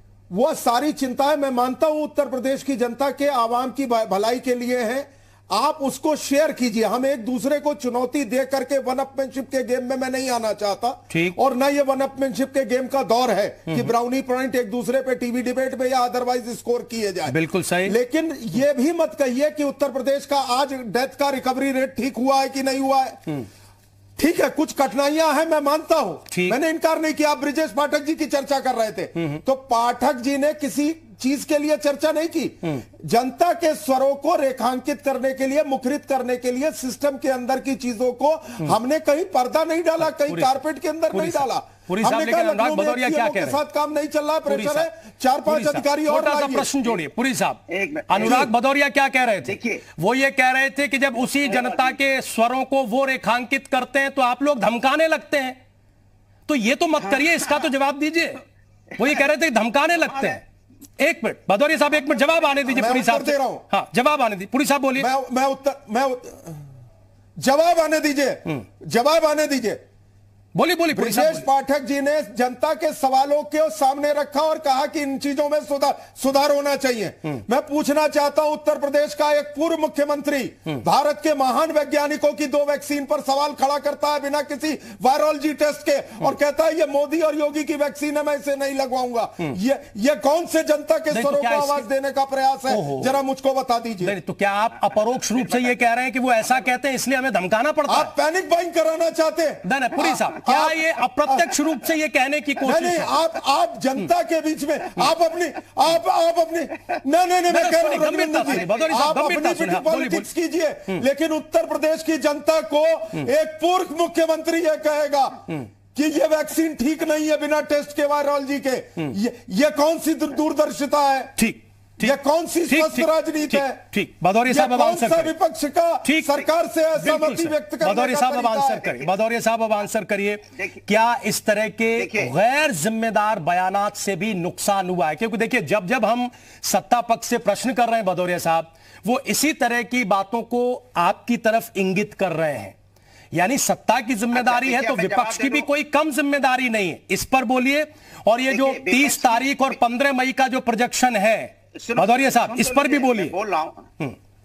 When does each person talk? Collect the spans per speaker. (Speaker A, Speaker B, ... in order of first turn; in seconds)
Speaker A: 0.3-23.3, 24.2-46.8, 48.2-48.5, 62.7-63.6, 65.0-66.7, 67.4-69.8, 70.9-94.2, 97.9-101.6, 102.6-121.3, 122.0-123.8, 124.5-128.9
Speaker B: 11.1-11.4, 17.3-17.9, 26.3-26.6, 40.3-40.5, 41.1-43.6, 44.5-44.9, 45.5-55.6, 56.5-58.4, 59.0-60.4, 61.0-65.1, 70.5-71.5, 91.1-91.9, 92.7-93.2, 94.0-98.1, 99.7-103.2, 107.5-110.3, 121.4-122.2, 122.7-125.3, 126.0-142.8, 143.3-153.3
Speaker C: 47.7-48.5, 49.5-49.8, 51.5-51.9, 57.0-57.7, 60.1-60.4, 61.9-62.8, 108.4-109.1, 128.8-129.1, 130.6-130.8, 132.0-132.3, 144.3-145.7, 148.5-149.8, 151.8-153.9